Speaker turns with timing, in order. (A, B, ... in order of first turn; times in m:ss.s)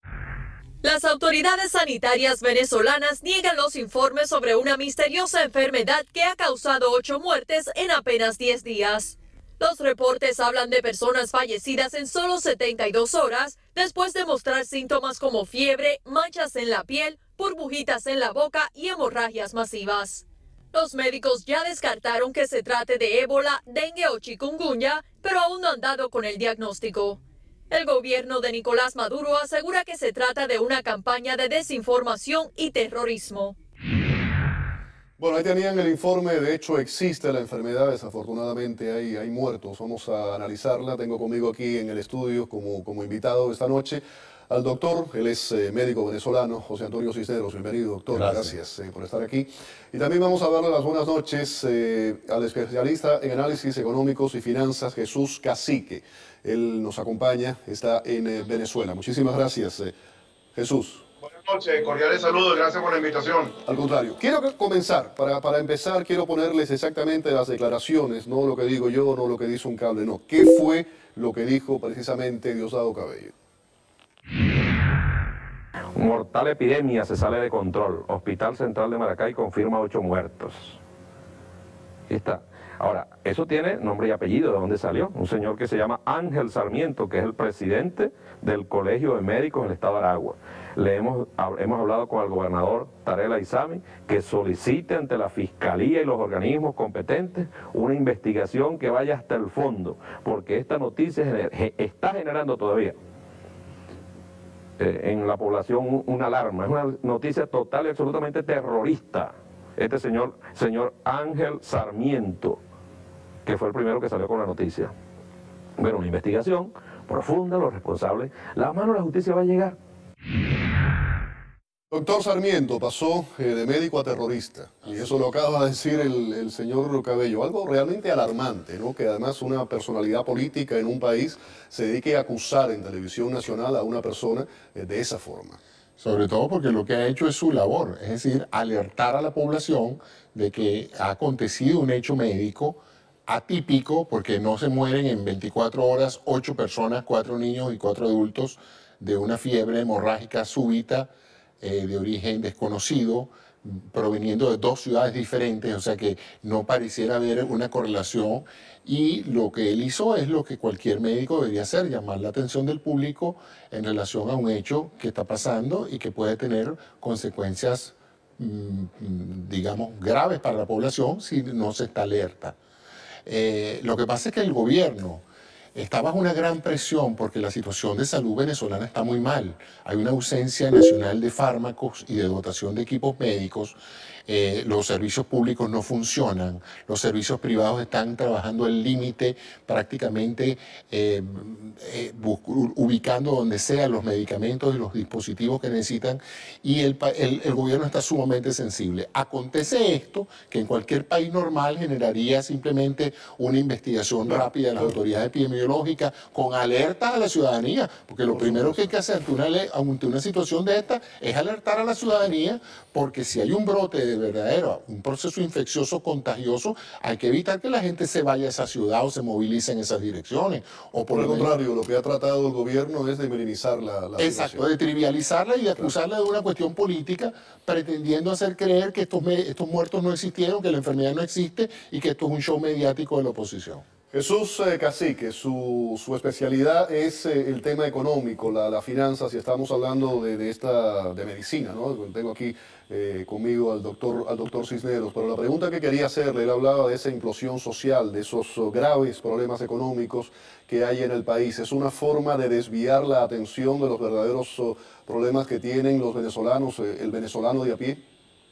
0:00.8-0:27.2 A
0:27.7-0:33.6 A
0:35.2-1:00.0 B
0:48.1-0:48.5 C
1:00.6-1:01.0 B
1:01.2-1:03.5 D
1:03.7-1:13.3 B
1:16.0-1:20.8 E
1:22.1-1:43.0 E
1:44.8-1:52.6 E
1:53.5-1:54.9 E
1:55.8-1:59.8 E
2:01.9-2:15.6 B
2:16.0-2:31.1 C
2:31.6-2:52.6 C
2:53.2-2:55.2 C
2:55.8-3:41.6 C
3:28.3-3:28.9 B
3:41.1-3:44.6 B
3:44.2-3:53.8 C
3:54.1-4:18.0 B